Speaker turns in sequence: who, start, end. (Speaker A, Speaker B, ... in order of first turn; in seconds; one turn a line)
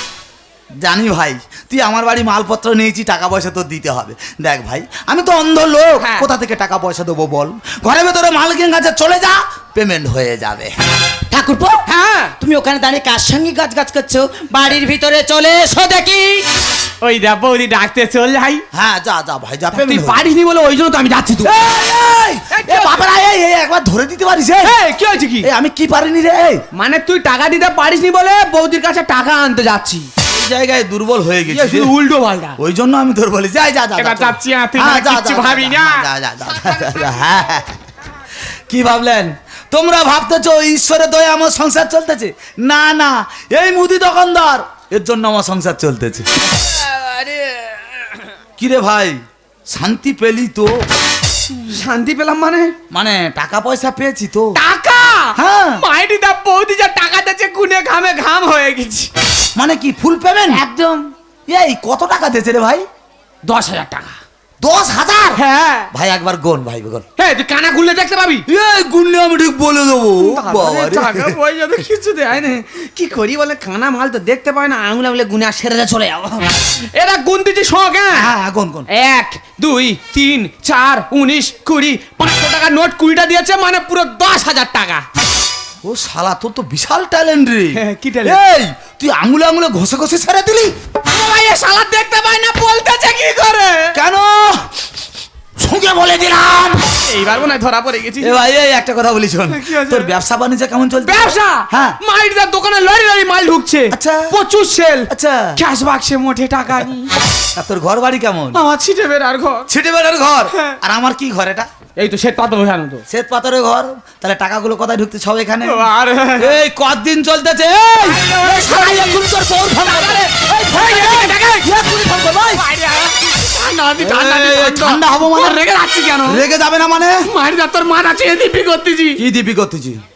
Speaker A: 0.8-10.7
Speaker B: 6.0-6.3
Speaker C: 11.3-11.8
Speaker B: 11.8-12.3
Speaker C: 12.4-16.4
Speaker B: 17.0-18.6
Speaker A: 18.7-20.2
Speaker B: 19.7-21.5
Speaker A: 21.4-24.8
Speaker B: 22.5-23.0
Speaker B: 24.6-25.5
Speaker A: 25.4-26.6
Speaker B: 26.7-30.1
Speaker A: 30.2-31.9
Speaker B: 31.5-32.6
Speaker A: 32.6-37.8
Speaker B: 34.0-36.0
Speaker A: 38.7-46.3
Speaker B: 46.5-48.2
Speaker A: 48.6-50.7
Speaker B: 51.5-52.7
Speaker A: 52.9-54.6
Speaker B: 54.5-59.1
Speaker A: 55.3-55.8
Speaker A: 59.5-60.6
Speaker B: 60.5-61.0
Speaker A: 61.5-62.9
Speaker B: 63.4-64.1
Speaker A: 64.6-67.0
Speaker B: 65.3-65.9
Speaker B: 67.2-68.4
Speaker A: 68.5-71.4
Speaker B: 70.2-78.3
Speaker A: 78.1-78.9
Speaker B: 78.9-85.0
Speaker A: 85.8-90.7
Speaker B: 87.7-88.4
Speaker B: 91.1-94.0
Speaker A: 93.9-94.7
Speaker A: 95.6-96.9
Speaker B: 97.0-98.4
Speaker A: 98.2-102.0
Speaker B: 99.5-100.1
Speaker B: 101.0-107.1
Speaker A: 103.9-104.3
Speaker A: 105.1-105.6
Speaker A: 107.5-108.6
Speaker B: 108.5-109.7
Speaker A: 109.7-111.7
Speaker B: 112.0-113.0
Speaker A: 113.1-122.6
Speaker B: 115.6-116.6
Speaker B: 118.0-126.4
Speaker A: 124.0-125.6
Speaker A: 126.2-127.3
Speaker B: 127.2-129.2
Speaker A: 129.2-130.0